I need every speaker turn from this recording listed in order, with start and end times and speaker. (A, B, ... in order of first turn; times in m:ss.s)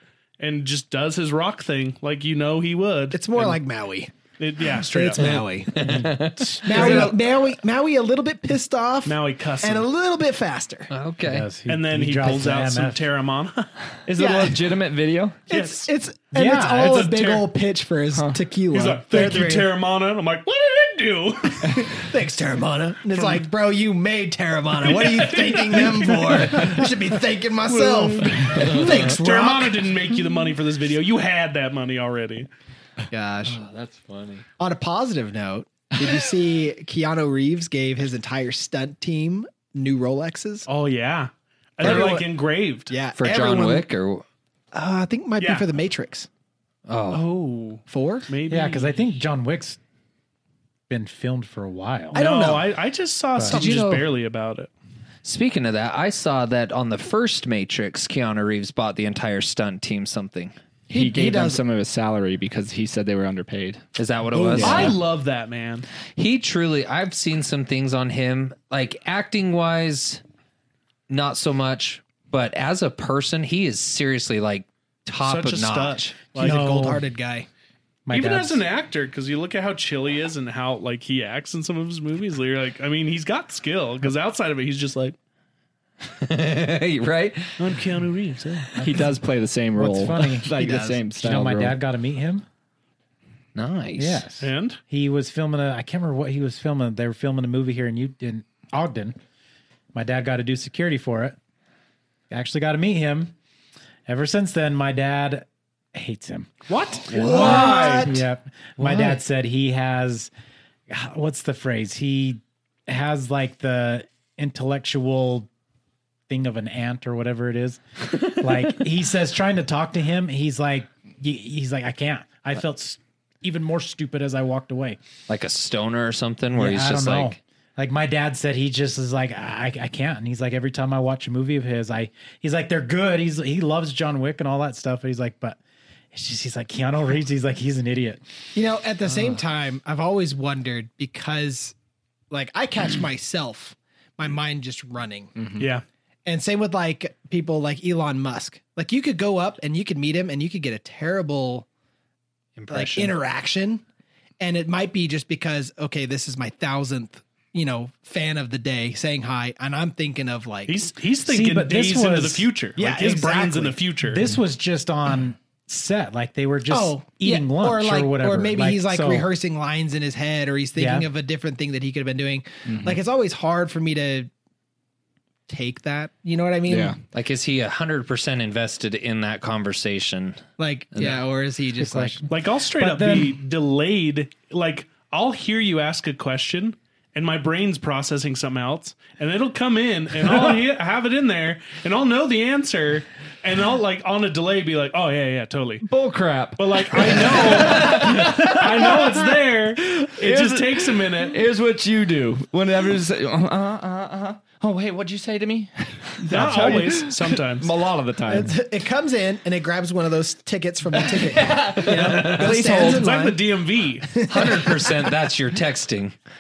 0:00.4-0:03.6 A
0:03.1-0:04.1 B
0:04.4-0:05.4 A
0:04.7-0:05.7 B
0:05.7-0:07.2 C
0:05.8-0:06.6 D
0:06.6-0:10.9 B
0:06.7-0:07.1 A
0:09.0-0:09.9 A
0:10.9-0:11.5 C
0:11.2-0:13.0 D
0:11.7-0:13.7 A
0:14.1-0:15.5 E
0:14.2-0:14.6 B
0:15.5-0:19.7 B
0:15.5-0:15.9 A
0:16.3-0:17.1 D
0:16.8-0:17.5 A
0:18.7-0:21.9 A
0:21.8-0:30.0 B
0:23.1-0:23.4 A
0:24.8-0:26.8 A
0:27.7-0:32.5 A
0:28.8-0:29.0 C
0:33.1-0:33.6 B
0:33.4-0:34.4 C
0:34.6-0:40.7 B
0:40.7-0:42.9 A
0:41.8-0:42.3 B
0:42.9-0:43.9 B
0:43.2-0:44.2 C
0:44.7-0:46.3 B
0:45.4-0:45.7 A
0:46.9-0:47.3 C
0:47.1-0:49.0 A
0:47.9-0:48.3 B
0:48.5-0:49.8 D
0:50.9-0:52.2 D
0:52.1-0:52.7 B
0:52.1-0:54.7 A
0:53.5-0:54.0 C
0:53.5-0:53.9 B
0:55.2-1:00.5 C
1:00.9-1:03.8 E
1:00.9-1:01.6 B
1:04.0-1:05.0 C
1:04.3-1:04.6 B
1:04.5-1:05.0 E
1:04.6-1:05.8 A
1:06.2-1:10.2 C
1:11.1-1:16.1 C
1:15.2-1:16.6 A
1:16.3-1:17.5 B
1:16.4-1:17.0 D
1:18.0-1:18.6 D
1:18.1-1:25.2 A
1:26.0-1:27.6 C
1:27.6-1:28.7 A
1:28.8-1:29.0 D
1:28.8-1:31.8 E
1:29.7-1:30.6 D
1:30.6-1:31.0 B
1:31.2-1:32.4 D
1:33.5-1:34.2 C
1:34.0-1:39.2 D
1:34.4-1:34.8 A
1:39.9-1:41.4 D
1:42.3-1:43.3 D
1:44.1-1:46.5 D
1:46.7-1:48.2 A
1:47.1-1:48.2 B
1:47.1-1:50.3 D
1:50.9-1:55.5 D
1:56.3-2:05.0 D
2:05.3-2:07.4 C
2:06.6-2:15.6 D
2:16.1-2:18.2 D
2:18.5-2:21.7 B
2:22.3-2:25.3 B
2:25.4-2:25.7 E
2:25.6-2:25.8 A
2:26.2-2:31.7 B
2:32.6-2:33.1 C
2:32.7-2:33.8 B
2:34.4-2:40.9 B
2:40.6-2:44.3 A
2:41.3-2:42.5 D
2:42.8-2:43.8 B
2:44.0-2:49.3 D
2:46.7-2:54.3 B
2:50.8-2:51.1 D
2:52.7-2:53.0 E
2:55.5-2:57.0 B
2:56.7-2:57.0 E
2:57.1-3:00.4 C
3:00.6-3:02.2 B
3:00.9-3:01.2 C
3:01.8-3:03.4 D
3:02.3-3:15.8 A
3:15.8-3:19.2 E
3:16.6-3:21.4 A
3:19.8-3:28.5 E
3:26.3-3:27.7 A
3:28.3-3:33.5 B
3:31.2-3:33.1 E
3:31.9-3:34.2 A
3:31.9-3:32.5 C
3:34.0-3:35.0 B
3:34.3-3:36.1 C